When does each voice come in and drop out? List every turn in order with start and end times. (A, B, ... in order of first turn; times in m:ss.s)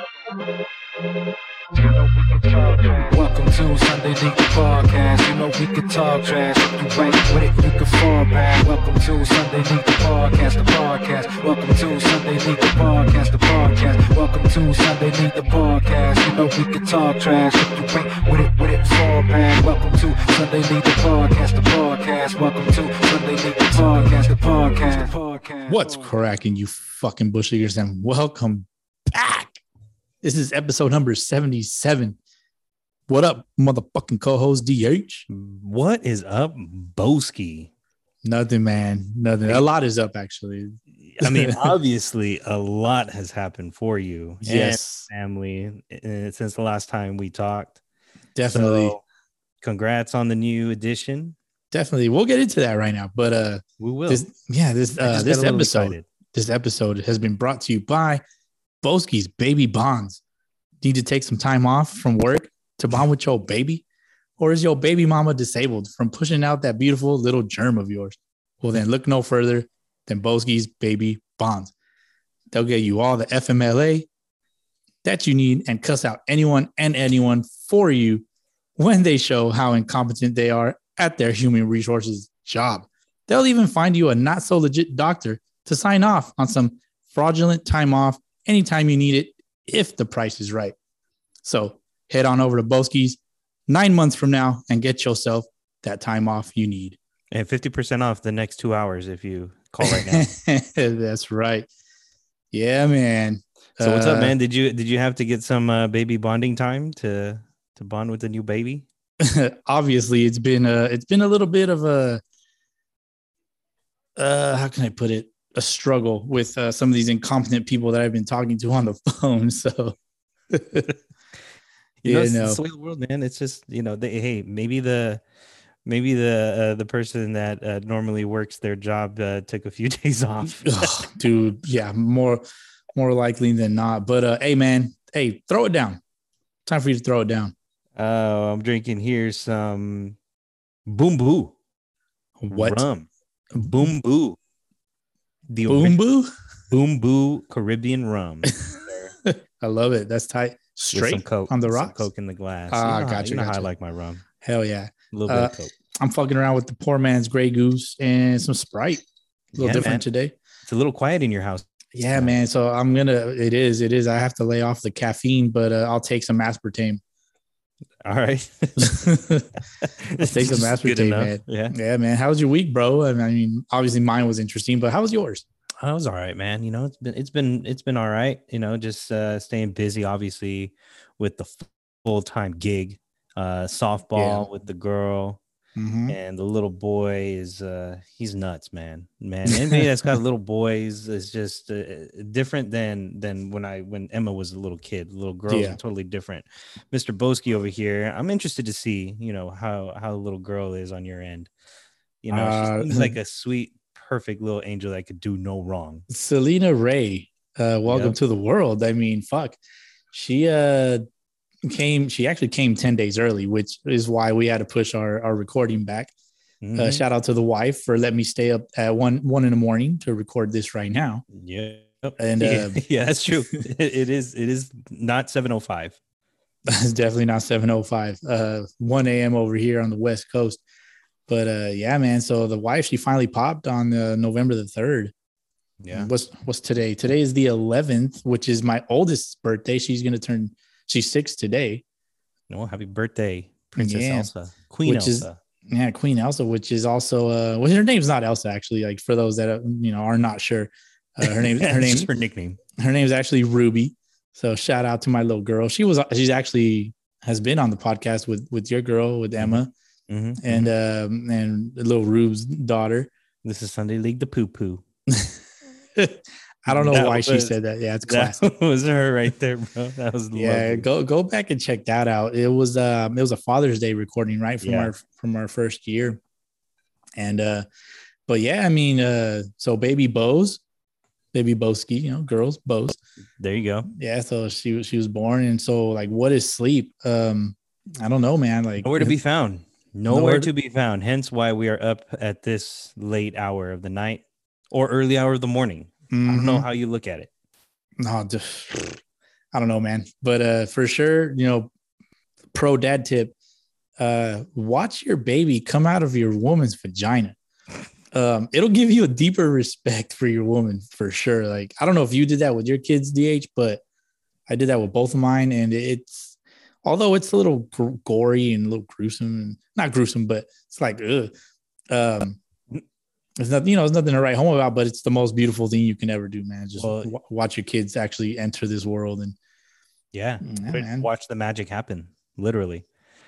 0:01.7-0:26.1 A
0:25.7-0:29.6 B
0:30.2-0:32.2 B
0:33.1-0:35.2 B
0:35.3-0:37.7 C
0:38.2-0:41.7 B
0:41.0-0:47.8 C
0:44.4-0:45.1 B
0:48.4-0:48.9 B
0:48.5-0:49.0 C
0:49.6-0:51.4 C
0:51.7-0:58.2 B
0:53.8-0:54.2 C
0:55.0-0:56.0 C
0:58.8-1:00.2 B
1:00.8-1:03.8 B
1:04.4-1:11.7 B
1:12.5-1:14.1 B
1:15.0-1:18.2 B
1:18.8-1:30.7 B
1:31.4-1:37.0 B
1:37.3-1:40.3 C
1:39.8-1:41.7 B
1:42.5-1:44.3 B
1:43.8-1:48.8 C
1:49.2-1:52.2 B
1:54.2-2:00.0 B
2:00.5-2:01.0 B
2:02.0-2:05.2 C
2:02.0-2:02.6 B
2:05.8-2:11.1 C
2:10.6-2:12.4 B
2:12.9-2:16.0 B
2:16.6-2:17.5 B
2:18.0-2:20.2 C
2:20.8-2:21.5 C
2:22.4-2:22.8 B
2:22.5-2:23.1 C
2:23.6-2:24.4 C
2:25.5-2:26.0 C
2:25.7-2:26.3 B
2:26.7-2:29.1 C
2:28.7-2:32.0 B
2:30.9-2:34.2 C
2:32.7-2:33.7 B
2:34.4-2:39.0 B
2:35.1-2:35.7 C
2:39.6-2:40.0 C
2:39.6-2:40.4 B
2:40.7-2:42.4 C
2:41.9-2:47.0 B
2:48.0-2:49.1 C
2:48.8-2:49.5 B
2:49.8-2:51.7 C
2:50.2-2:55.4 B
2:55.8-3:05.4 C
3:04.1-3:04.4 B
3:05.8-3:06.2 B
3:06.1-3:21.5 C
3:09.5-3:10.1 B
3:15.5-3:15.8 B
3:22.2-3:26.0 C
3:22.3-3:23.1 B
3:26.1-3:29.6 B
3:27.9-3:28.2 C
3:30.1-3:31.0 B
3:31.6-3:36.1 B
3:36.6-3:37.0 C
3:36.7-3:41.2 B
3:41.3-3:46.0 C
3:42.2-3:42.8 B
3:46.7-3:50.6 B
3:51.3-3:55.1 B
3:55.8-3:56.1 C
3:55.9-4:01.8 B
4:02.5-4:05.4 C
4:03.8-4:04.3 B
4:04.8-4:12.1 B
4:11.2-4:12.6 C
4:12.8-4:19.7 B
4:19.4-4:20.7 C
4:20.4-4:23.1 B
4:23.4-4:24.8 C
4:25.1-4:25.4 B
4:25.9-4:28.4 B
4:26.7-4:27.5 C
4:28.1-4:30.8 C
4:30.3-4:36.2 B
4:34.6-4:34.9 C
4:37.2-4:37.6 B
4:38.3-4:40.6 B
4:41.3-4:43.0 B
4:43.4-4:43.9 C
4:43.9-4:49.1 B
4:48.8-4:57.3 C
4:50.1-4:50.5 B
4:56.1-4:56.6 B
4:58.0-4:59.0 B
4:59.5-5:01.7 B
5:02.5-5:03.3 B
5:04.0-5:07.4 B
5:08.1-5:13.8 B
5:14.5-5:21.3 B
5:21.9-5:22.4 B
5:23.4-5:29.4 B
5:26.8-5:27.1 C
5:30.1-5:32.8 C
5:30.4-5:31.1 B